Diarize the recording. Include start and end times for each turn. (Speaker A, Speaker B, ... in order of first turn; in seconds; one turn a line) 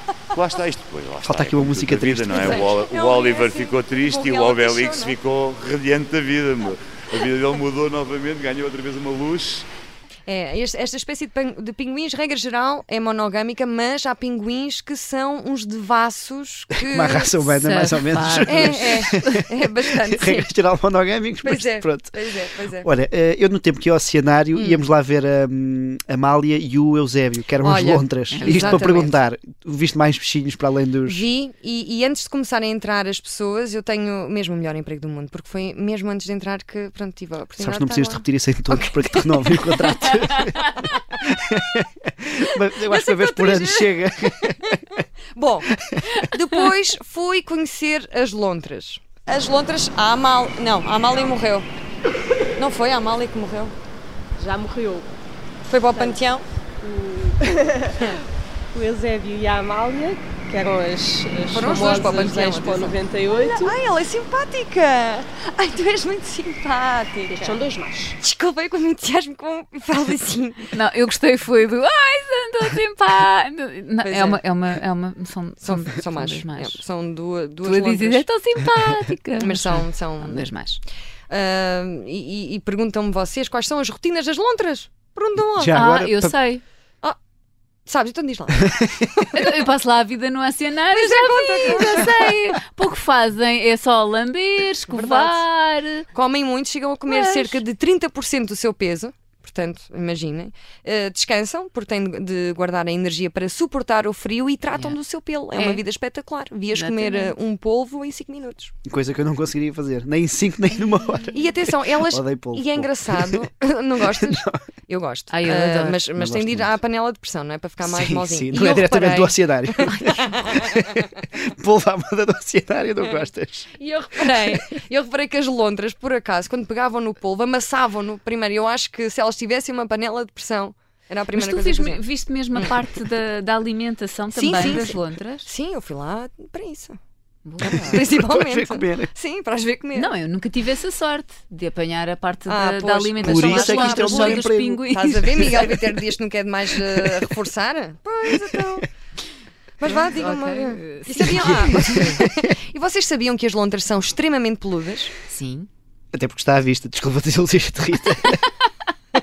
Speaker A: 0.3-9.7
Speaker B: 1.2-2.7
Speaker C: 2.3-5.2
Speaker C: 10.2-17.4
Speaker B: 16.8-22.2
Speaker D: 17.4-19.1
Speaker C: 18.4-20.5
Speaker C: 21.4-22.9
Speaker B: 22.8-31.2
Speaker C: 24.5-24.8
Speaker C: 27.6-29.1
Speaker D: 28.3-28.9
Speaker C: 31.0-41.0
Speaker B: 37.6-40.6
Speaker B: 41.2-44.9
Speaker C: 42.8-44.7
Speaker C: 45.3-45.7
Speaker B: 45.8-46.0
Speaker C: 46.2-51.7
Speaker C: 52.6-53.7
Speaker E: 54.4-55.1
Speaker C: 55.7-56.5
Speaker E: 55.9-56.2
Speaker E: 56.8-58.2
Speaker E: 58.7-63.7
Speaker C: 61.5-67.6
Speaker E: 67.3-68.2
Speaker C: 68.2-70.7
Speaker D: 70.7-76.8
Speaker C: 74.0-74.4
Speaker C: 75.6-78.2
Speaker D: 77.6-80.8
Speaker C: 79.4-80.5
Speaker C: 81.3-85.8
Speaker B: 85.5-86.4
Speaker D: 85.7-86.6
Speaker C: 87.9-89.3
Speaker D: 89.3-96.0
Speaker C: 90.9-92.3
Speaker C: 94.9-95.4
Speaker C: 96.1-108.7
Speaker D: 97.1-97.6
Speaker D: 105.5-105.8
Speaker D: 106.7-107.3
Speaker B: 108.8-113.4
Speaker C: 111.3-121.0
Speaker B: 114.2-114.5
Speaker D: 115.3-116.1
Speaker B: 116.1-116.7
Speaker B: 117.8-123.7
Speaker C: 123.8-132.0
Speaker D: 131.3-135.5
Speaker C: 134.3-137.0
Speaker D: 137.4-138.0
Speaker B: 137.6-139.1
Speaker C: 137.9-140.1
Speaker D: 139.9-145.8
Speaker C: 142.5-148.8
Speaker B: 143.2-144.8
Speaker C: 149.8-155.1
Speaker D: 149.8-152.2
Speaker B: 151.3-152.3
Speaker D: 155.3-155.7
Speaker B: 156.1-158.4